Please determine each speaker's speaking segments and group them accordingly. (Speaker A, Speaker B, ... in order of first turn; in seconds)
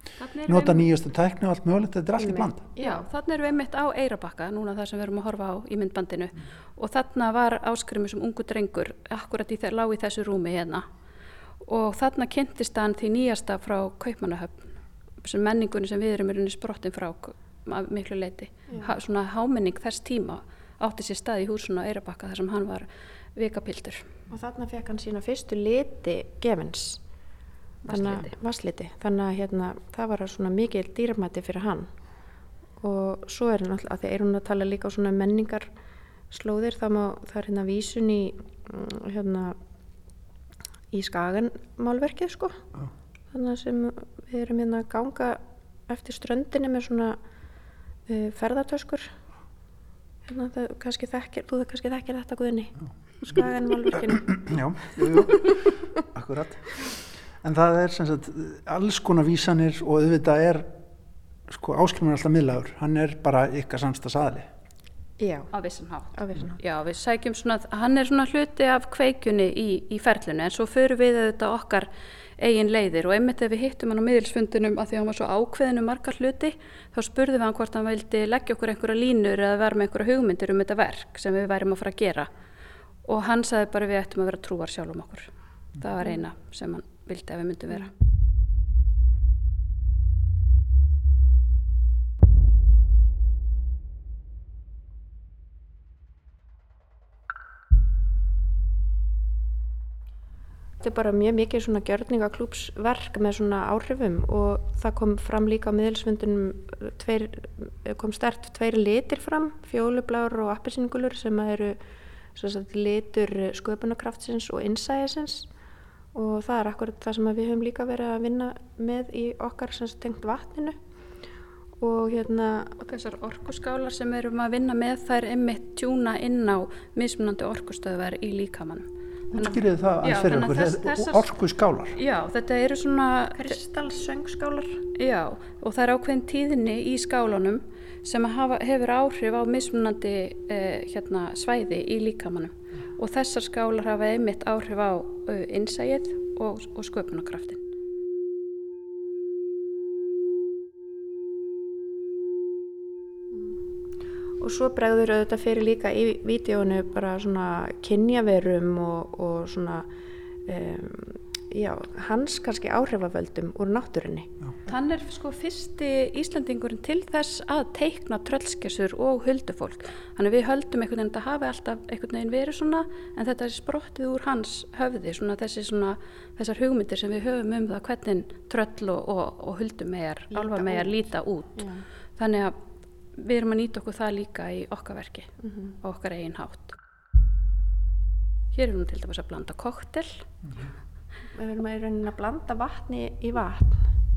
Speaker A: 0.2-0.9, 2.8-10.9, 11.6-24.1, 27.9-28.3, 65.5-82.3, 83.0-87.9, 122.8-131.3, 131.9-133.6, 134.9-147.6, 164.7-182.6, 183.2-185.3, 185.8-186.8, 188.5-190.3
Speaker B: 0.5-2.7, 54.0-56.7, 57.4-60.7, 61.5-64.5, 129.3-132.0
Speaker C: 2.2-3.0, 18.7-18.9, 24.3-27.0, 27.9-31.9, 32.8-35.7, 36.3-39.6, 40.9-42.6, 43.3-47.2, 48.1-49.1, 50.3-54.3, 55.0-55.2, 65.2-65.5, 66.2-66.6, 100.8-111.8, 112.3-115.5, 116.1-120.8, 121.8-122.8, 133.4-134.8, 154.4-159.9, 160.5-164.3, 180.3-181.8, 185.4-185.8, 191.3-193.9